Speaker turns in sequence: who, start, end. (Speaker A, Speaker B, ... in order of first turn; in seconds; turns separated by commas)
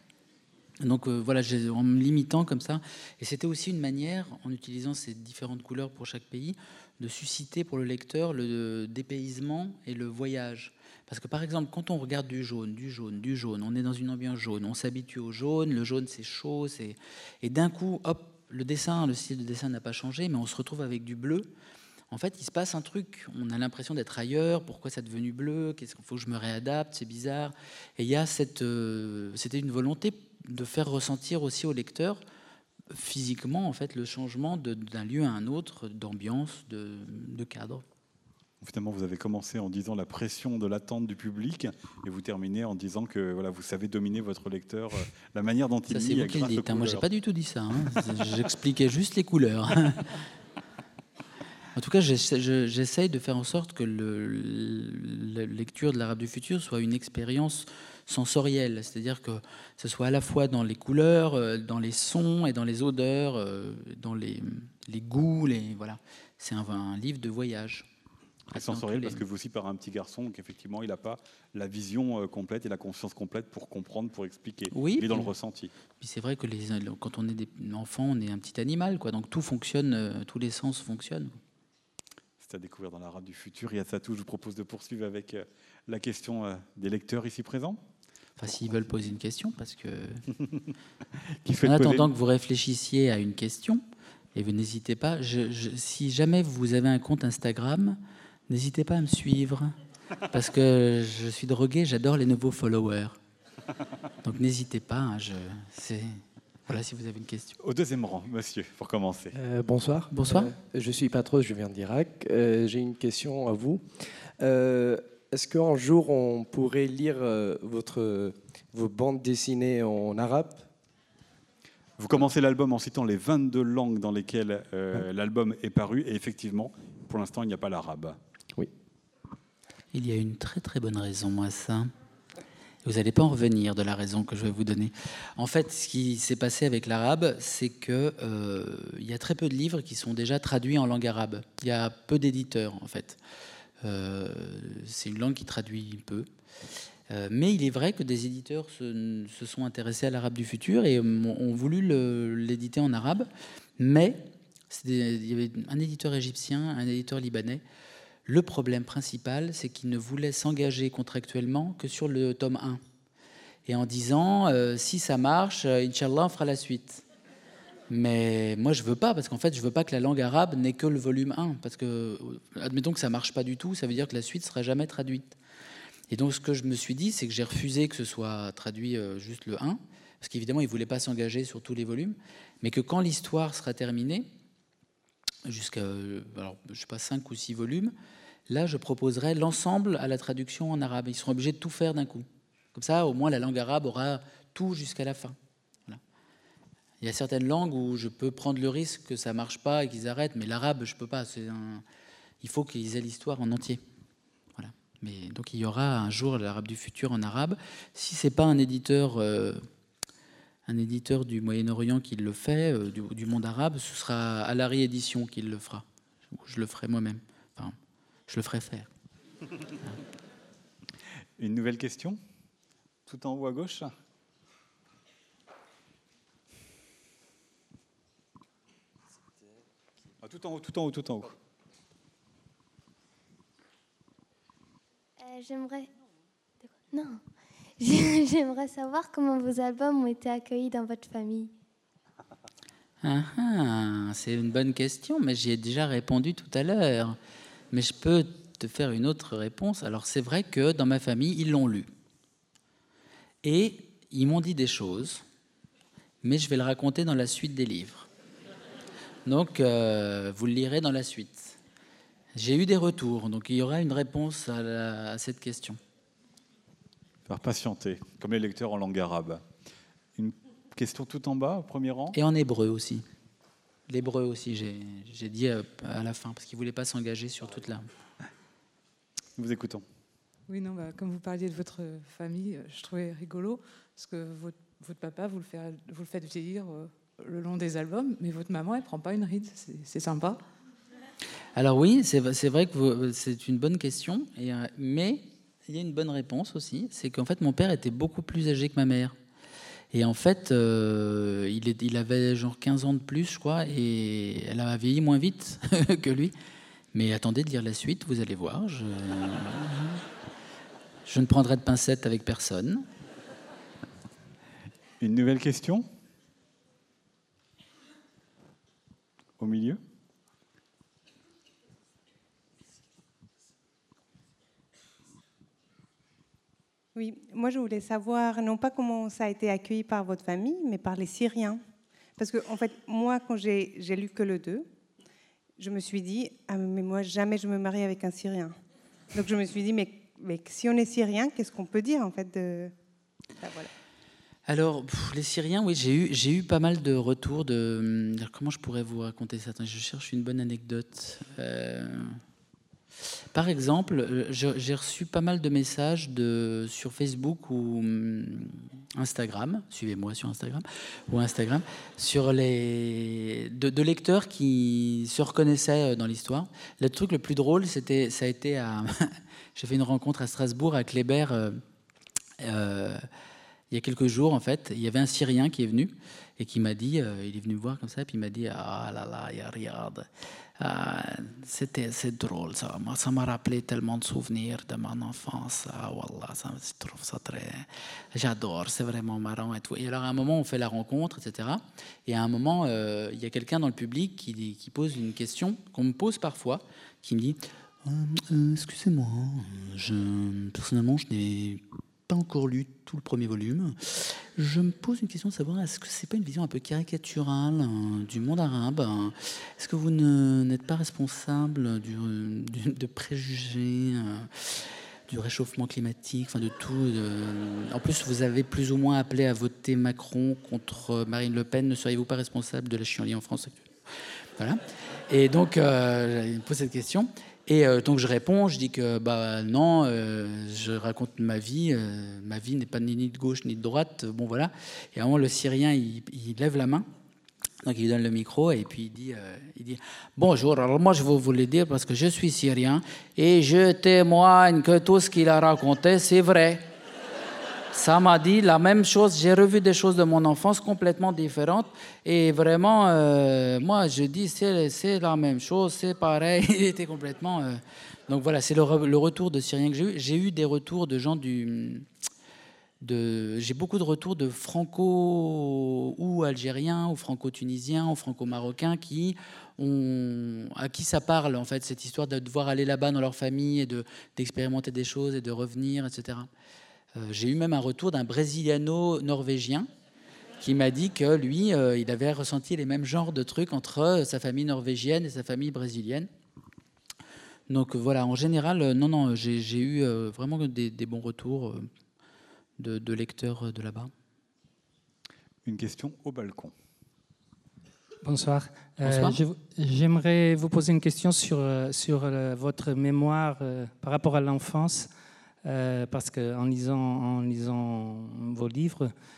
Speaker A: 0.8-21.5, Speaker A: 22.1-32.2, Speaker A: 32.9-37.8, Speaker B: 38.6-47.0, Speaker A: 45.9-50.2, Speaker A: 51.8-67.9, Speaker A: 68.5-69.2, Speaker B: 68.5-75.7, Speaker A: 74.7-75.3, Speaker A: 76.0-81.4, Speaker B: 82.4-87.8, Speaker A: 88.4-90.2, Speaker B: 91.3-92.1, Speaker A: 91.6-93.8, Speaker A: 94.3-99.7, Speaker A: 100.3-103.2, Speaker A: 104.2-107.6, Speaker B: 107.6-109.3, Speaker C: 109.3-120.7, Speaker A: 110.1-110.5, Speaker B: 122.0-128.2, Speaker A: 129.9-131.9, Speaker A: 132.8-143.2, Speaker A: 143.8-146.3, Speaker A: 147.1-157.6, Speaker A: 158.2-162.8, Speaker A: 163.7-167.0, Speaker A: 167.9-175.4, Speaker A: 176.1-184.3, Speaker A: 185.4-187.9, Speaker A: 188.5-195.4, Speaker A: 197.0-201.8, Speaker A: 202.4-203.8, Speaker A: 204.6-209.6, Speaker A: 210.7-217.7, Speaker A: 218.3-218.9, Speaker B: 221.4-222.2, Speaker B: 223.1-223.9, Speaker B: 230.2-231.4, Speaker D: 235.2-235.9, Speaker D: 236.9-237.2, Speaker D: 237.8-241.5, Speaker A: 243.0-247.2, Speaker A: 247.7-251.9, Speaker A: 253.4-255.2, Speaker A: 256.2-258.1, Speaker A: 259.2-261.6, Speaker A: 262.3-265.8, Speaker B: 267.3-269.4, Speaker B: 270.1-272.2, Speaker A: 272.1-273.0, Speaker A: 273.9-277.9, Speaker B: 279.4-279.8, Speaker E: 280.5-290.4, Speaker A: 291.6-299.1, Speaker A: 299.9-306.3, Speaker A: 306.9-310.0, Speaker A: 311.1-312.9, Speaker B: 315.0-315.9, Speaker B: 319.4-319.8, Speaker F: 326.9-331.6, Speaker F: 332.2-334.7, Speaker F: 335.6-338.6, Speaker F: 339.1-342.7, Speaker F: 343.4-343.7, Speaker A: 344.5-352.2, Speaker A: 353.3-371.6, Speaker A: 372.4-373.0, Speaker A: 373.7-380.1, Speaker A: 380.6-423.6, Speaker A: 424.4-436.9, Speaker A: 437.6-446.7, Speaker A: 447.7-461.9, Speaker A: 462.8-476.3, Speaker A: 476.9-479.7, Speaker A: 480.4-486.1, Speaker A: 487.5-491.7, Speaker A: 492.6-493.9, Speaker B: 495.4-496.5, Speaker G: 498.0-504.9, Speaker A: 498.8-499.2, Speaker G: 505.4-508.9